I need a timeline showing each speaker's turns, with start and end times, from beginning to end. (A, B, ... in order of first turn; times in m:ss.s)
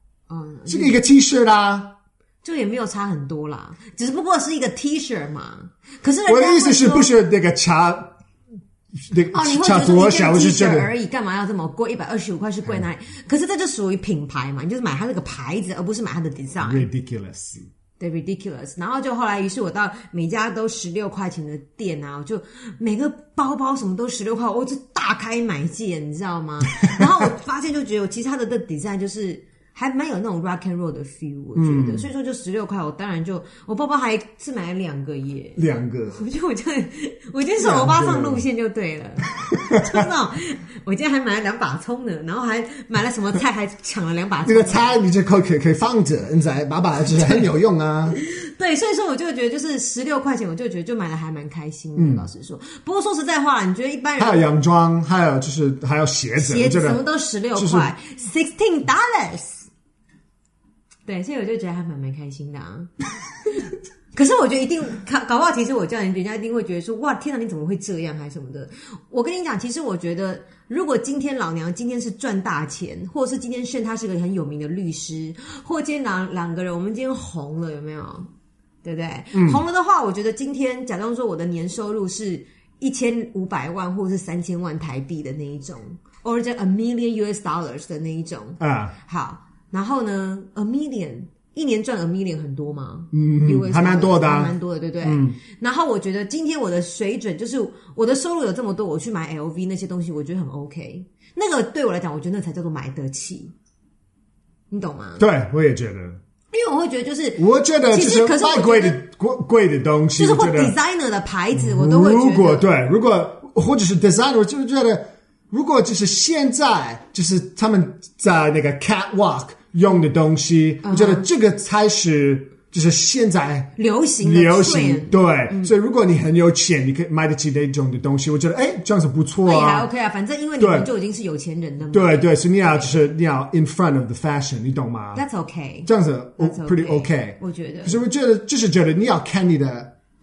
0:00.3-0:01.0 A
0:00.7-0:01.9 B
0:02.4-0:07.1 A
0:06.3-0:08.1 B
0:09.1-0:10.9 B
0:09.3-0:16.8 A
0:16.6-0:17.7 B
0:18.0-0:45.0 A
0:31.5-0:32.1 B
0:35.6-0:36.2 B
0:37.6-0:38.4 B
0:39.5-0:40.1 B
0:44.4-0:48.2 B
0:48.2-0:54.4 A
0:52.0-0:52.2 B
0:54.2-0:57.0 B
0:56.4-0:59.7 A
0:57.5-0:57.9 B
1:01.1-1:02.9 A
1:03.5-1:18.3 A
1:18.8-1:43.5 A
1:19.3-1:19.6 B
1:28.6-1:28.9 B
1:33.1-1:35.4 B
1:44.7-1:45.2 A
1:45.2-1:46.2 B
1:46.5-1:49.0 A
1:47.4-1:50.7 B
1:50.2-1:52.7 A
1:51.5-2:09.9 B
2:00.8-2:01.3 A
2:03.8-2:05.7 A
2:09.4-2:13.0 A
2:10.6-2:10.9 B
2:11.9-2:15.2 B
2:15.1-2:18.0 A
2:15.8-2:19.9 B